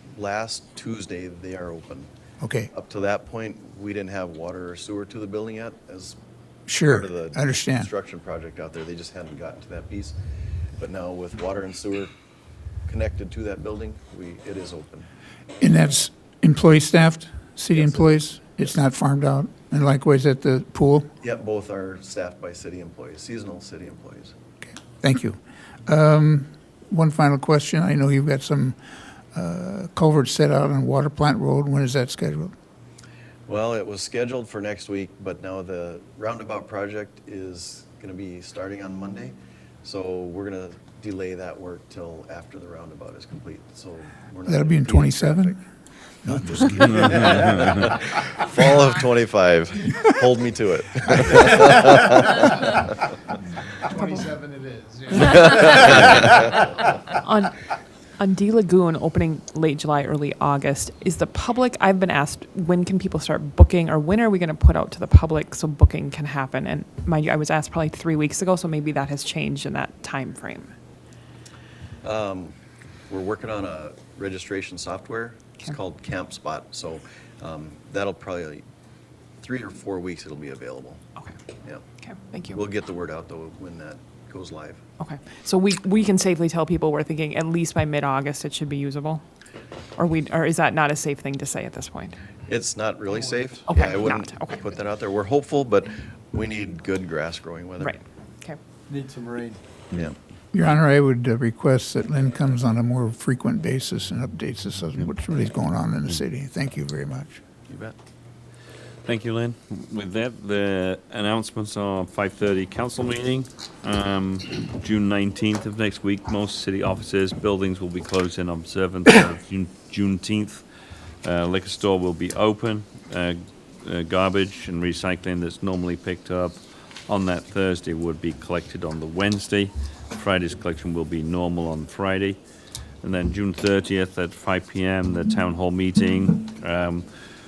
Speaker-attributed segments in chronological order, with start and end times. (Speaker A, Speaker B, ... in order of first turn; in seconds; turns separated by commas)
Speaker A: 0.2-2.1, Speaker B: 2.4-2.7, Speaker A: 2.7-6.2, Speaker B: 6.7-7.9, Speaker A: 6.8-10.2, Speaker A: 10.8-12.1, Speaker A: 12.9-15.1, Speaker B: 15.6-21.1, Speaker A: 17.7-18.7, Speaker A: 21.2-24.3, Speaker B: 24.9-28.8, Speaker B: 29.3-32.5, Speaker A: 33.5-45.6, Speaker B: 44.5-45.6, Speaker B: 46.2-47.3, Speaker A: 46.3-52.9, Speaker C: 53.9-56.7, Speaker A: 55.5-56.4, Speaker D: 57.2-57.5, Speaker D: 58.2-70.7, Speaker A: 72.0-72.5, Speaker A: 73.1-78.6, Speaker A: 79.4-81.0, Speaker D: 82.0-82.6, Speaker A: 82.5-84.8, Speaker D: 85.0-89.2, Speaker D: 90.0-92.2, Speaker A: 92.5-98.0, Speaker D: 93.7-94.6, Speaker D: 97.8-98.6, Speaker C: 98.9-99.6, Speaker B: 100.5-107.4, Speaker A: 107.7-108.0, Speaker E: 109.0-120.6, Speaker E: 121.2-132.4, Speaker E: 133.0-137.1